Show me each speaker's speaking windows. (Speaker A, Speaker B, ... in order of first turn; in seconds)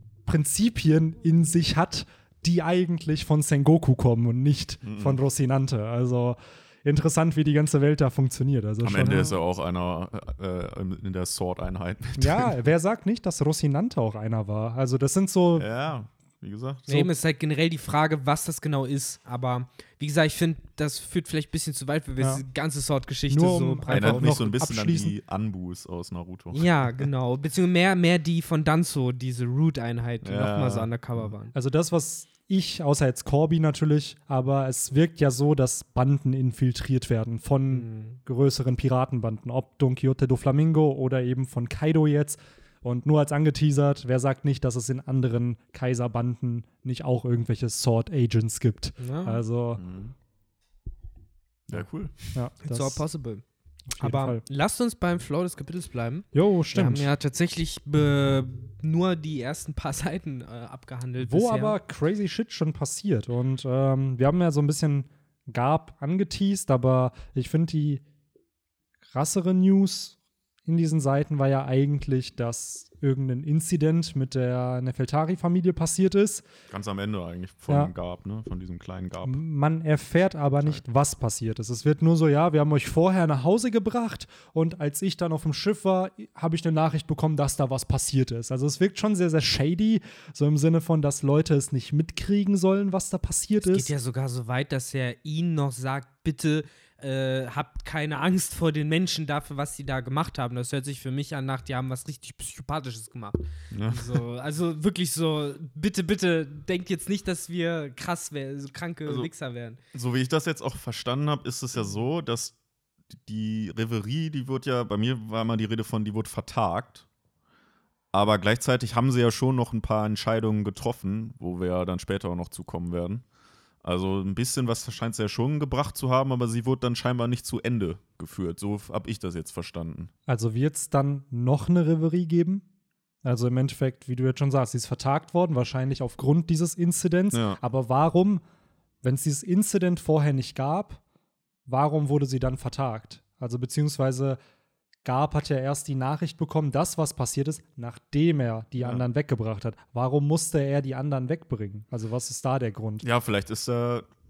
Speaker A: 0.3-9.4, 12.2-15.7, 23.3-25.1, 31.5-49.8, 51.7-53.0, 53.9-54.4, 56.3-57.1, 61.2-68.0, 69.1-76.4, 79.2-93.9, 130.3-132.6, 133.2-138.4, 139.0-141.0, 141.7-144.4, 145.1-153.1
Speaker B: 4.8-5.2, 8.8-12.6, 15.6-16.9, 23.9-27.1, 30.2-30.9, 49.8-50.1, 51.7-52.4, 76.7-79.4, 103.7-104.2, 109.9-112.6, 113.1-117.1, 118.1-123.2, 123.8-130.1, 137.3-137.6, 148.8-149.0, 153.0-154.1
Speaker C: 16.9-24.3, 26.5-31.5, 37.7-38.2, 49.0-49.4, 52.6-53.4, 54.0-61.8, 93.6-109.8